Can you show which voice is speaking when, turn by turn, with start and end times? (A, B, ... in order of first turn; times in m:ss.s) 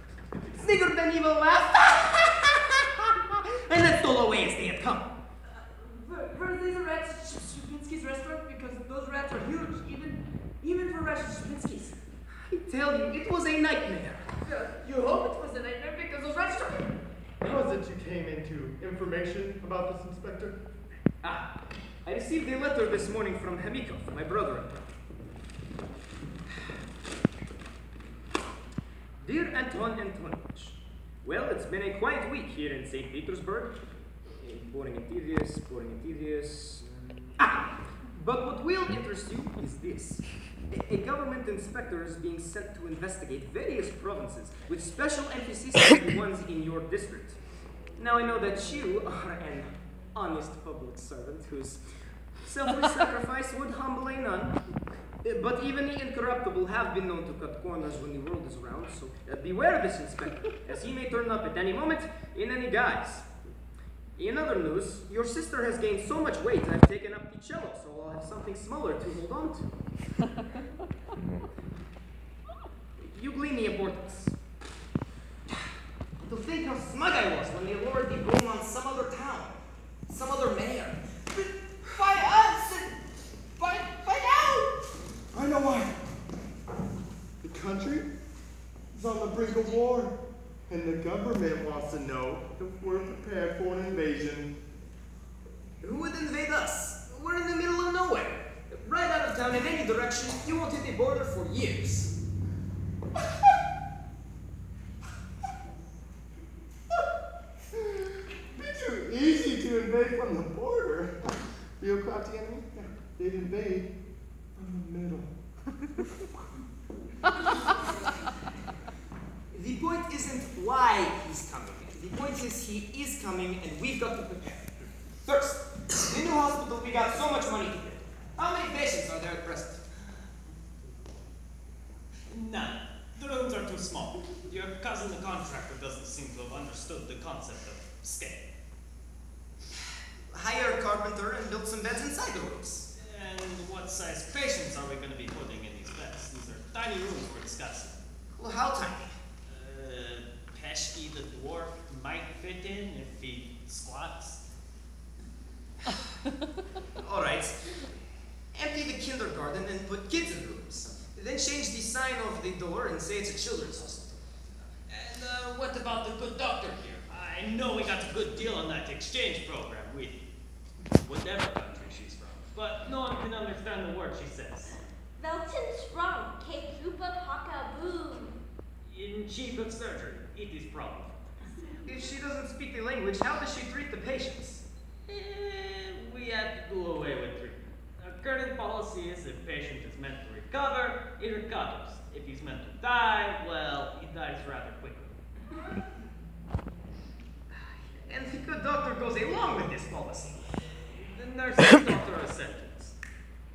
0:00.4-0:05.1 A
0:05.5-0:12.0 B
0:12.4-0:14.3 A
0:14.5-0:17.0 B
0:17.4-0:20.6 C
0:21.2-0:21.5 A
0:22.0-0:24.8 A
0:29.2-0:33.7 A
0:34.4-0:36.9 A
0:37.4-0:47.4 A
0:48.0-0:51.8 A
0:52.4-0:54.6 A
0:55.2-1:03.3 A
1:04.2-1:09.8 A
1:13.0-1:14.4 A
1:16.2-1:23.0 A
1:23.6-1:24.8 A
1:25.3-1:26.0 C
1:27.4-1:28.1 C
1:28.9-1:30.1 C
1:30.7-1:34.5 C
1:35.8-1:42.1 A
1:48.6-1:51.2 C
1:51.8-1:53.9 C
1:54.6-1:55.3 C
1:59.5-2:04.7 A
2:05.2-2:09.8 A
2:12.3-2:18.5 D
2:20.3-2:22.9 A
2:23.0-2:28.0 D
2:28.3-2:29.1 A
2:29.5-2:34.4 D
2:36.9-2:37.8 A
2:38.5-2:44.2 A
2:44.9-2:50.2 D
2:51.0-2:54.8 D
2:55.2-2:58.4 E
2:58.8-3:01.2 D
3:01.8-3:04.6 A
3:05.1-3:15.2 D
3:17.5-3:20.4 A
3:20.8-3:23.0 D